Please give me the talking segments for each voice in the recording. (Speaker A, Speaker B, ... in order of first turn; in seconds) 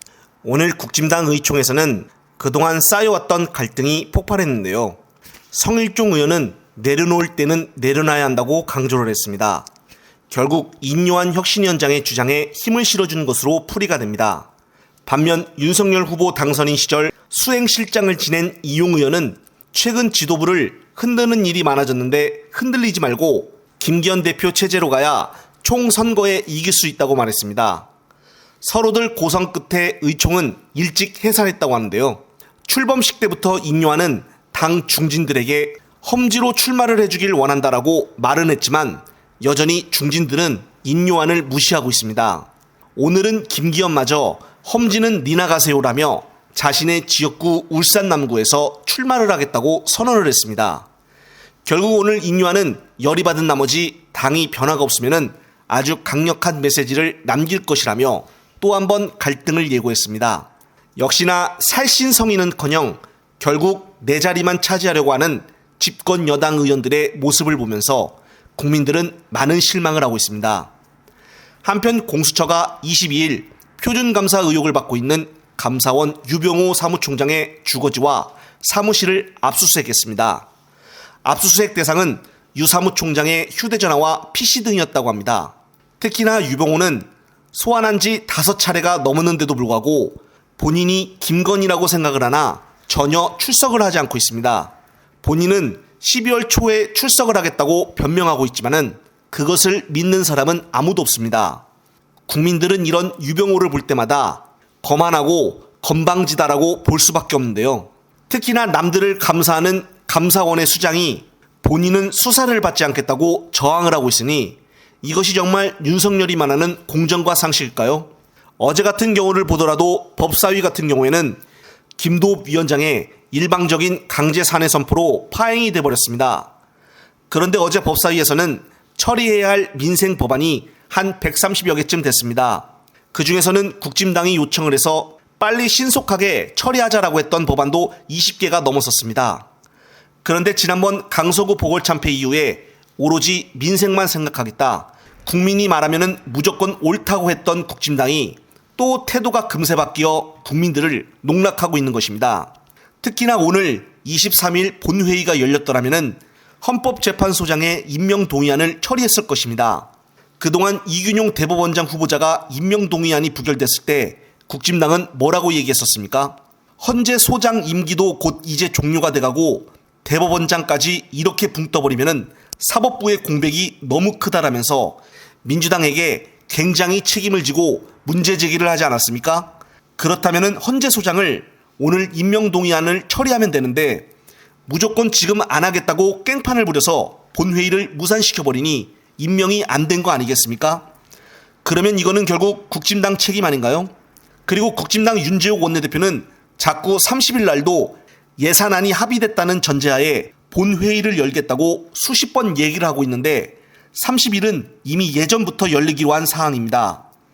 Speaker A: 0.4-5.0, 5.5-9.7, 10.3-14.5, 15.1-27.9, 28.6-50.9, 51.6-70.7, 71.6-80.5, 81.2-101.6, 102.3-121.4, 122.0-126.5, 127.3-139.5, 140.2-159.9, 160.4-184.1, 184.7-190.8, 191.6-193.9, 194.5-207.0